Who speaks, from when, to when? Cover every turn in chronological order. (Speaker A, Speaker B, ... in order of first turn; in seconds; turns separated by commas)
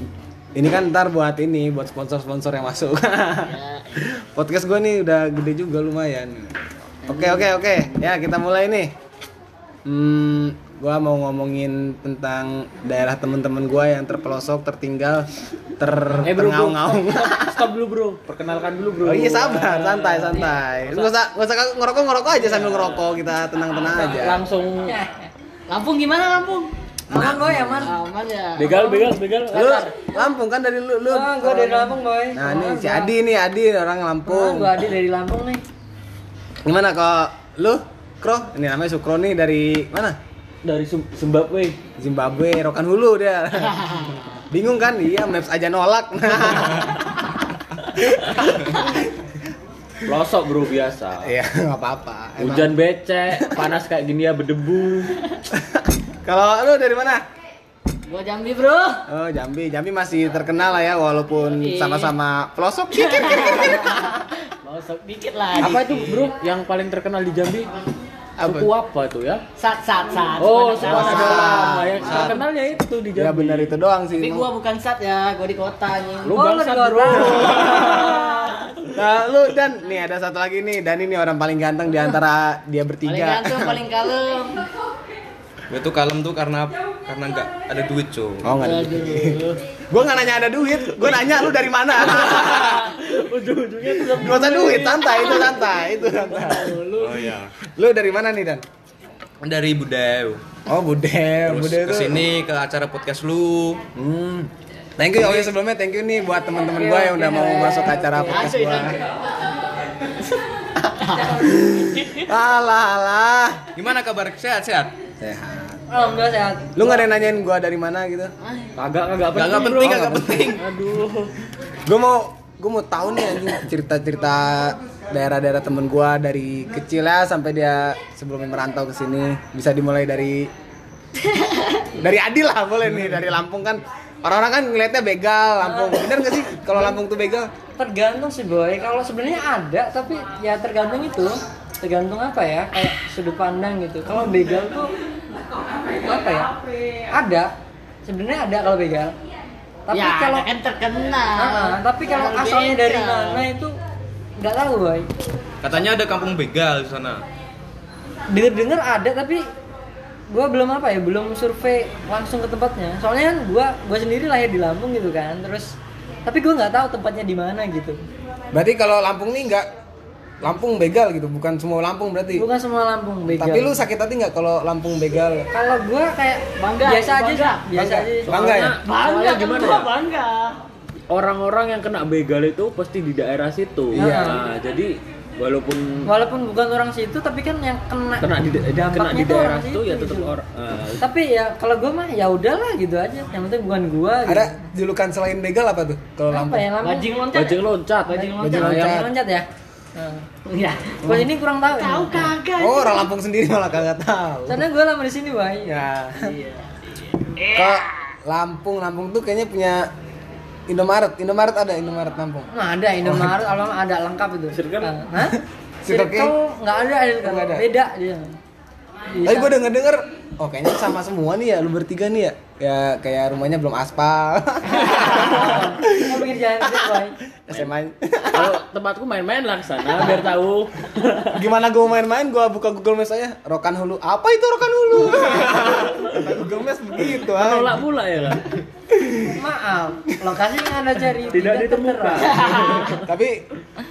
Speaker A: 0.6-6.5, Speaker B: 3.4-4.0, Speaker A: 7.1-8.9, Speaker B: 7.1-7.5, Speaker A: 9.8-15.3, Speaker A: 15.8-17.7, Speaker C: 16.2-21.1, Speaker A: 19.0-24.4, Speaker C: 22.5-23.1, Speaker C: 23.9-25.0, Speaker D: 24.9-25.3, Speaker B: 25.7-26.7, Speaker D: 27.1-27.9, Speaker A: 27.1-27.9, Speaker B: 27.8-28.8, Speaker C: 28.6-30.1, Speaker D: 28.7-29.2, Speaker A: 29.5-34.8, Speaker D: 31.1-33.1, Speaker D: 34.3-35.6, Speaker A: 36.6-40.2, Speaker C: 40.6-41.8, Speaker A: 42.0-49.0, Speaker B: 43.8-44.1, Speaker C: 50.1-51.3, Speaker A: 51.2-52.7, Speaker C: 52.4-55.1, Speaker A: 55.5-57.2, Speaker B: 58.1-59.0, Speaker A: 59.1-64.2, Speaker B: 61.6-62.1, Speaker B: 62.9-65.9, Speaker C: 65.6-67.7, Speaker A: 65.6-66.3, Speaker A: 68.4-68.7, Speaker C: 68.4-69.4, Speaker B: 69.6-72.4, Speaker C: 70.4-73.8, Speaker A: 70.8-72.4, Speaker A: 73.2-74.5, Speaker B: 74.2-76.4, Speaker C: 76.2-78.3, Speaker D: 76.3-77.5, Speaker B: 77.4-78.4, Speaker A: 77.5-78.0, Speaker A: 78.9-83.8, Speaker B: 83.0-84.7, Speaker E: 85.7-88.4, Speaker A: 88.4-89.4, Speaker B: 88.6-89.6, Speaker A: 89.9-92.9, Speaker C: 92.2-95.5, Speaker A: 94.0-96.8, Speaker B: 95.1-97.3, Speaker E: 97.0-97.5, Speaker A: 97.8-98.6, Speaker E: 99.4-100.4, Speaker A: 100.7-102.2, Speaker E: 101.5-103.8, Speaker A: 104.0-109.0, Speaker E: 105.2-105.5, Speaker D: 106.7-108.5, Speaker B: 108.2-109.1, Speaker B: 111.0-112.2, Speaker A: 111.4-113.7, Speaker E: 113.8-114.9, Speaker A: 115.2-115.8, Speaker D: 115.9-117.0, Speaker A: 116.8-118.3, Speaker B: 118.4-118.7, Speaker C: 118.8-121.3, Speaker E: 119.3-120.6, Speaker A: 119.8-120.6, Speaker A: 121.8-130.5, Speaker A: 132.0-137.5, Speaker D: 137.8-144.9, Speaker D: 145.9-146.5, Speaker D: 147.1-147.5, Speaker D: 148.1-149.1, Speaker D: 149.9-150.5, Speaker B: 149.9-153.5, Speaker D: 151.4-153.8, Speaker D: 154.4-155.1, Speaker E: 155.6-157.2, Speaker D: 158.3-159.4, Speaker D: 160.3-168.0, Speaker A: 168.5-169.7, Speaker A: 170.4-172.5, Speaker D: 172.4-173.7, Speaker A: 173.3-175.5, Speaker D: 175.5-178.4, Speaker B: 176.6-177.7, Speaker A: 177.7-178.8, Speaker C: 177.8-179.9, Speaker B: 178.8-180.6, Speaker C: 181.1-186.1, Speaker A: 183.9-184.4, Speaker D: 183.9-184.4, Speaker D: 186.1-190.3, Speaker C: 188.2-191.1, Speaker D: 191.0-194.5, Speaker A: 194.3-196.7, Speaker D: 196.3-197.6, Speaker B: 196.8-198.9, Speaker C: 197.1-199.1, Speaker A: 198.4-199.1, Speaker D: 198.9-199.4, Speaker D: 200.0-200.3, Speaker B: 200.5-203.1, Speaker D: 201.1-202.2, Speaker A: 202.6-204.7, Speaker D: 204.5-205.8, Speaker A: 205.7-206.3, Speaker B: 206.2-206.8, Speaker B: 207.3-207.9, Speaker A: 207.5-209.9, Speaker A: 210.7-212.5, Speaker D: 212.5-218.4, Speaker A: 213.1-213.4, Speaker C: 214.5-215.1, Speaker A: 215.8-216.3, Speaker A: 217.2-217.7, Speaker D: 219.1-219.5, Speaker A: 219.2-228.6, Speaker D: 224.9-227.2, Speaker C: 228.3-231.4, Speaker A: 231.3-237.8, Speaker C: 237.3-238.6, Speaker A: 238.9-239.4, Speaker D: 239.4-242.5, Speaker C: 241.1-243.0, Speaker B: 242.2-243.0, Speaker A: 242.9-243.4